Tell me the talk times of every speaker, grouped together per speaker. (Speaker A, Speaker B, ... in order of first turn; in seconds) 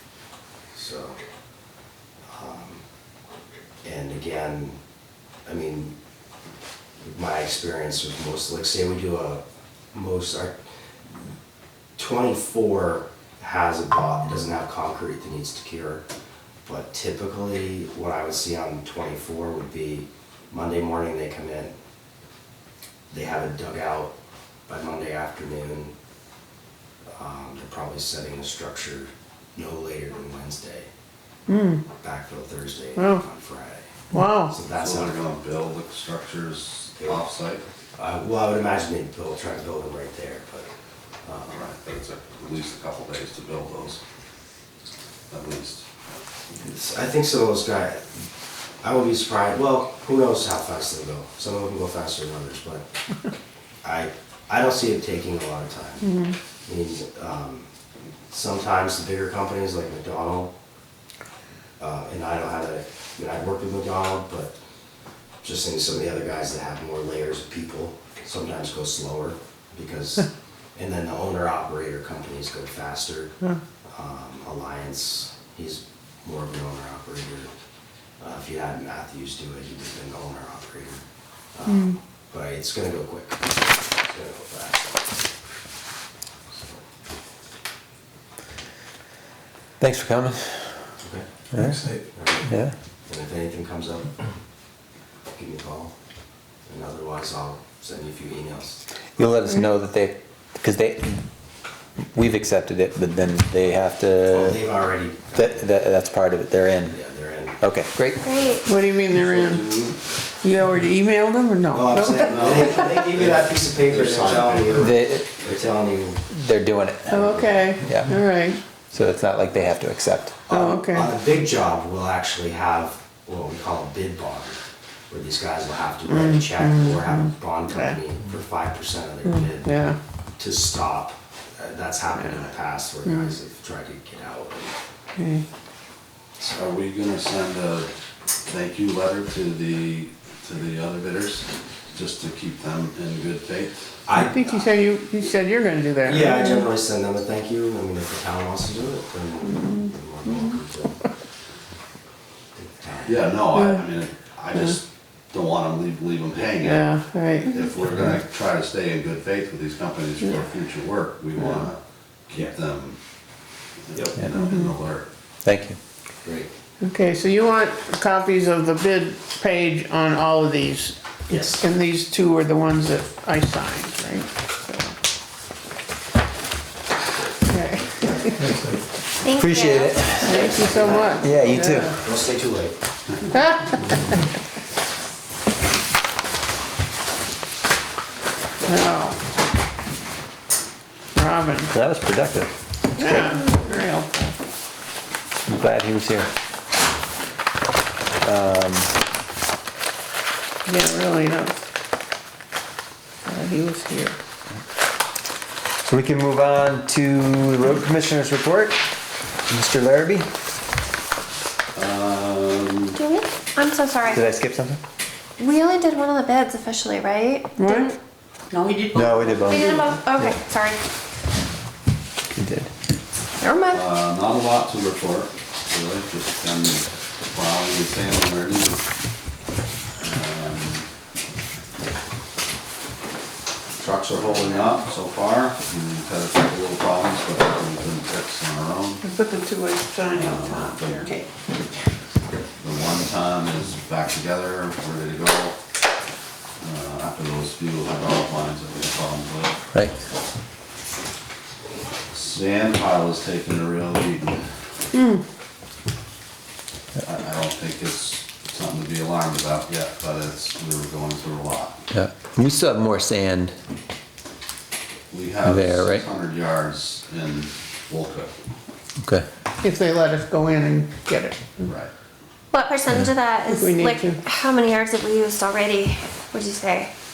Speaker A: 0.7-1.2, 2.3-2.8, 3.8-4.8, 5.5-6.0, 7.0-10.6, 12.0-16.1, 16.7-21.7, 23.1-24.1, 24.7-25.9, 27.1-30.9, 32.0-35.2, 37.0-37.3, 38.0-40.7, 41.2-41.6, 46.5-48.3, 48.8-52.9, 53.8-57.7, 58.3-60.5, 61.8-64.6, 65.4-73.3, 73.9-77.5, 78.2-81.0, 81.5-85.0, 86.5-86.8, 91.0-91.3, 92.0-92.5, 93.0-94.1, 95.3-95.9, 96.7-98.8, 104.3-105.7, 106.9-107.6, 108.3-108.7, 111.7-116.2, 120.5-129.8, 130.4-134.7, 144.1-144.7, 146.1-151.0, 152.6-153.4, 161.4-161.7, 166.2-166.5, 171.3-171.6, 178.0-178.3, 180.3-181.4, 181.9-182.8
Speaker B: 31.5-31.8, 33.0-33.2, 34.1-34.6, 56.0-56.3, 81.7-81.9, 108.7-109.7, 110.4-112.8, 117.1-118.6, 120.5-121.1, 126.1-128.0, 129.2-130.0, 133.1-133.3, 135.2-135.4, 144.2-146.7, 149.5-149.8, 156.6-157.6, 164.4-164.7, 166.8-174.9, 177.5-178.5, 180.2-181.9, 183.3-183.8, 188.7-189.2, 191.2-191.7, 193.0-194.3, 200.7-201.5, 203.2-204.2, 217.6-217.9, 218.5-220.0, 239.0-241.3, 254.9-255.2, 269.6-271.4, 273.5-274.2
Speaker C: 34.7-37.6, 41.5-44.0, 45.3-46.2, 109.2-110.0, 112.2-114.9, 136.5-137.9, 138.5-144.0, 153.1-163.0, 163.9-165.1, 211.8-213.0, 223.7-228.8, 230.0-230.9, 233.8-239.0, 240.1-241.2, 242.6-245.6, 246.6-249.6, 252.1-254.4, 257.0-261.8, 265.1-268.3, 271.6-271.9
Speaker D: 89.8-90.8, 91.5-91.9, 92.4-92.8, 99.2-101.3, 102.1-104.6, 105.3-107.0, 107.6-108.3, 114.7-115.3, 116.3-118.3, 118.9-120.4, 165.4-165.8, 179.3-180.6, 181.2-181.9, 191.7-192.5, 195.4-196.3, 198.2-198.9, 205.9-208.8, 209.5-210.3, 214.1-214.8, 218.9-220.3, 222.3-222.7, 261.9-263.6, 265.4-266.1, 269.0-269.3
Speaker E: 108.2-108.7, 179.2-180.4, 212.9-214.2, 215.4-218.0, 219.5-220.8, 223.4-223.9, 272.5-276.9